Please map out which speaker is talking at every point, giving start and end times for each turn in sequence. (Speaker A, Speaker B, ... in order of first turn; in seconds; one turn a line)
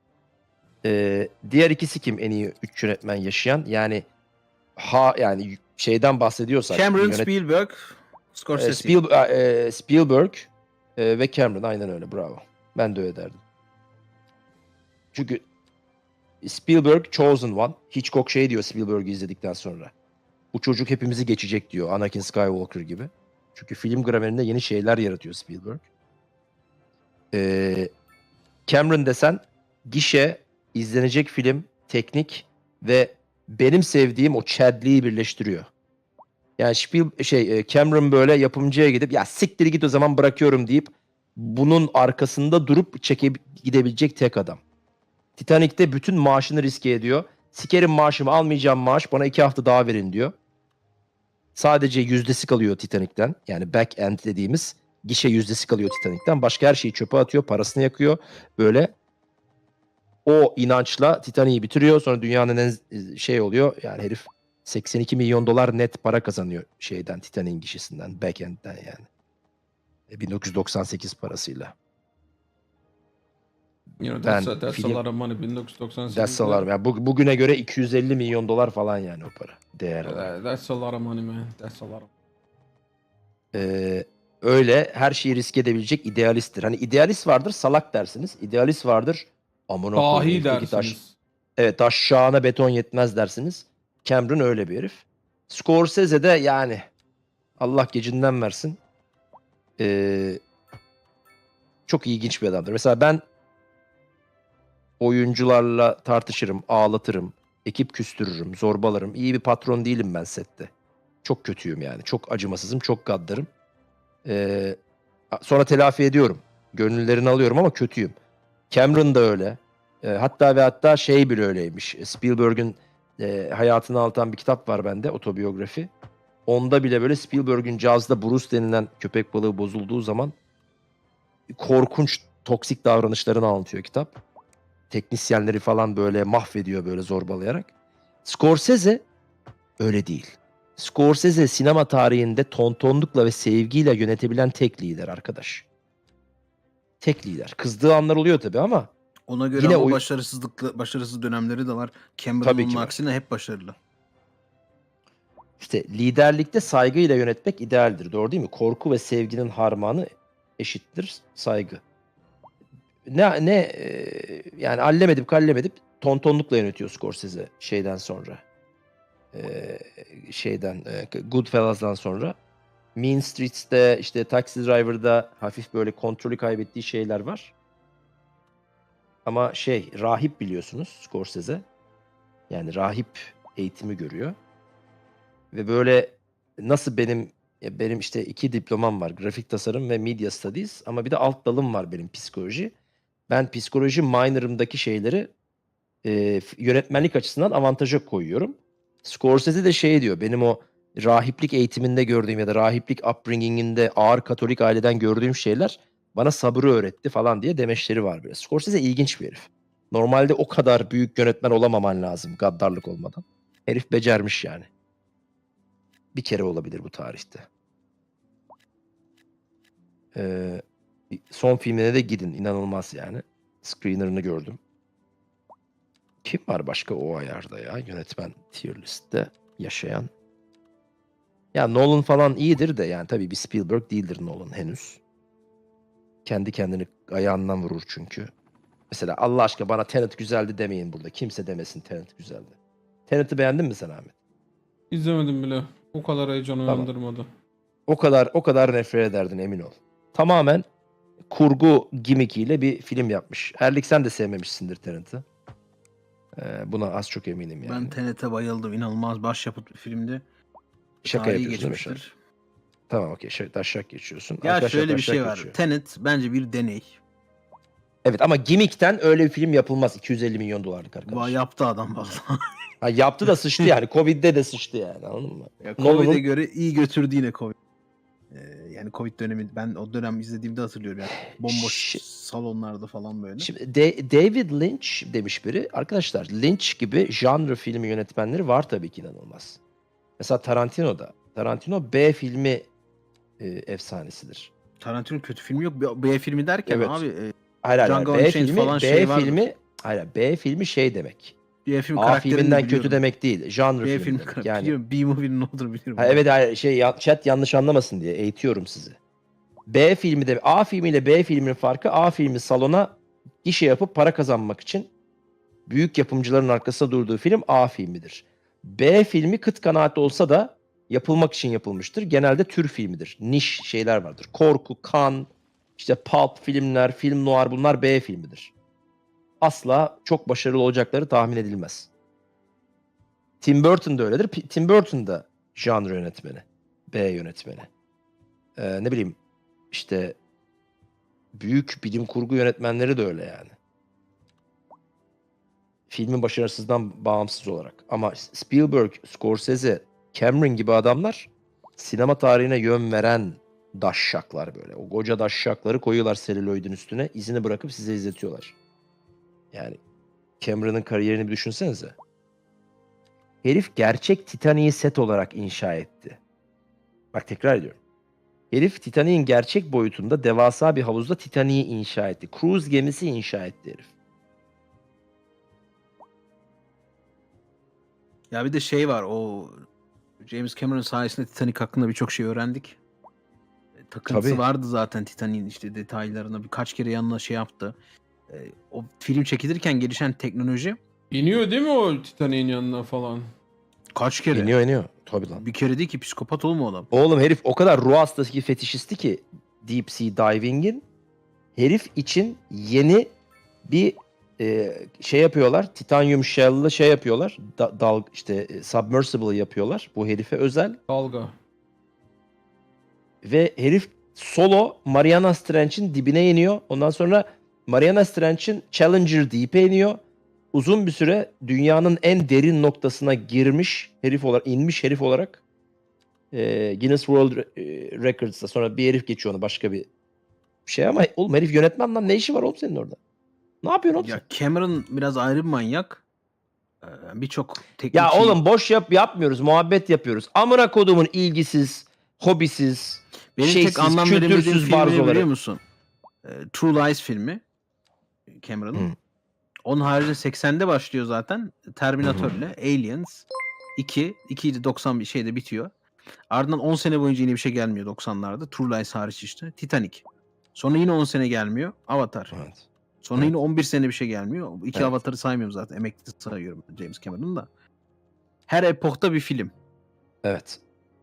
Speaker A: 0.8-4.0
Speaker A: 4.8-7.3
Speaker B: 6.7-9.0
Speaker A: 8.5-13.4
Speaker A: 15.1-15.4
Speaker A: 16.4-19.9
Speaker A: 20.5-25.8
Speaker A: 27.3-27.9
Speaker A: 28.7-35.7
Speaker A: 36.6-44.6
Speaker A: 45.4-50.3
Speaker A: 51.5-58.9
Speaker A: 60.2-69.1
Speaker A: 70.1-71.7
Speaker C: 74.0-76.7
Speaker A: 74.2-75.0
Speaker A: 76.1-80.3
Speaker C: 80.0-82.1
Speaker A: 83.5-91.0
Speaker C: 89.9-91.2
Speaker A: 91.6-96.8
Speaker A: 97.6-98.8
Speaker A: 99.8-100.4
Speaker A: 101.9-103.2
Speaker A: 105.0-110.7
Speaker A: 111.2-113.5
Speaker A: 114.2-114.8
Speaker A: 115.3-118.1
Speaker A: 118.7-125.9
Speaker A: 126.5-130.3
Speaker A: 131.5-134.2
Speaker A: 134.9-137.7
Speaker A: 138.2-139.0
Speaker A: 139.8-145.7
Speaker A: 147.0-148.9
Speaker B: 149.3-153.8
Speaker A: 149.5-150.0
Speaker A: 152.4-153.0
Speaker A: 155.6-161.8
Speaker A: 163.1-168.4
Speaker A: 169.3-172.3
Speaker A: 172.9-177.5
Speaker A: 179.2-181.6
Speaker A: 182.5-184.3
Speaker A: 185.5-192.7
Speaker A: 193.3-195.3
Speaker A: 196.0-214.7
Speaker A: 216.1-217.5
Speaker A: 220.1-224.6
Speaker A: 226.2-230.1
Speaker A: 231.5-235.0
Speaker A: 236.2-238.3
Speaker A: 238.9-242.6
Speaker A: 243.1-244.1
Speaker C: 244.9-247.3
Speaker A: 247.9-250.7
Speaker A: 251.3-255.2
Speaker A: 256.3-257.9
Speaker B: 257.6-260.2
Speaker A: 261.0-262.0
Speaker B: 261.0-262.1
Speaker A: 262.9-265.6
Speaker B: 264.4-267.0
Speaker A: 268.0-271.4
Speaker B: 271.1-272.3
Speaker A: 272.8-276.2
Speaker B: 275.6-277.5
Speaker B: 278.3-283.5
Speaker A: 281.3-282.0
Speaker A: 283.4-289.6
Speaker A: 290.2-292.7
Speaker A: 293.4-294.5
Speaker B: 294.8-299.4
Speaker A: 296.7-297.0
Speaker A: 297.6-301.4
Speaker B: 301.6-303.0
Speaker A: 301.9-304.7
Speaker B: 303.8-306.2
Speaker A: 306.0-309.0
Speaker A: 309.7-314.9
Speaker A: 315.7-328.5
Speaker A: 329.4-331.9
Speaker A: 333.4-337.7
Speaker A: 338.6-339.2
Speaker A: 339.7-340.2
Speaker A: 341.3-343.5
Speaker A: 345.9-358.6
Speaker A: 359.5-359.8
Speaker A: 360.4-361.9
Speaker A: 363.4-366.2
Speaker A: 367.1-367.8
Speaker A: 368.5-373.9
Speaker B: 378.3-379.6
Speaker B: 380.2-382.8
Speaker B: 383.9-387.7
Speaker A: 384.1-384.4
Speaker B: 388.3-390.8
Speaker C: 391.1-393.3
Speaker B: 393.9-394.5
Speaker A: 394.3-395.4
Speaker B: 395.4-396.9
Speaker A: 396.9-400.8
Speaker A: 401.6-403.1
Speaker A: 403.7-410.8
Speaker C: 410.9-411.3
Speaker A: 413.2-420.0
Speaker A: 420.5-425.4
Speaker A: 426.3-429.9
Speaker A: 430.6-433.0
Speaker A: 433.6-434.2
Speaker B: 434.0-436.0
Speaker B: 436.8-438.4
Speaker A: 437.9-445.3
Speaker B: 443.4-445.6
Speaker B: 446.2-447.4
Speaker B: 448.3-448.9
Speaker B: 449.6-453.2
Speaker A: 452.0-452.3
Speaker B: 453.8-455.7
Speaker B: 456.3-462.3
Speaker A: 462.3-463.3
Speaker B: 463.0-467.5
Speaker A: 464.7-465.0
Speaker B: 468.5-469.5
Speaker A: 470.2-470.6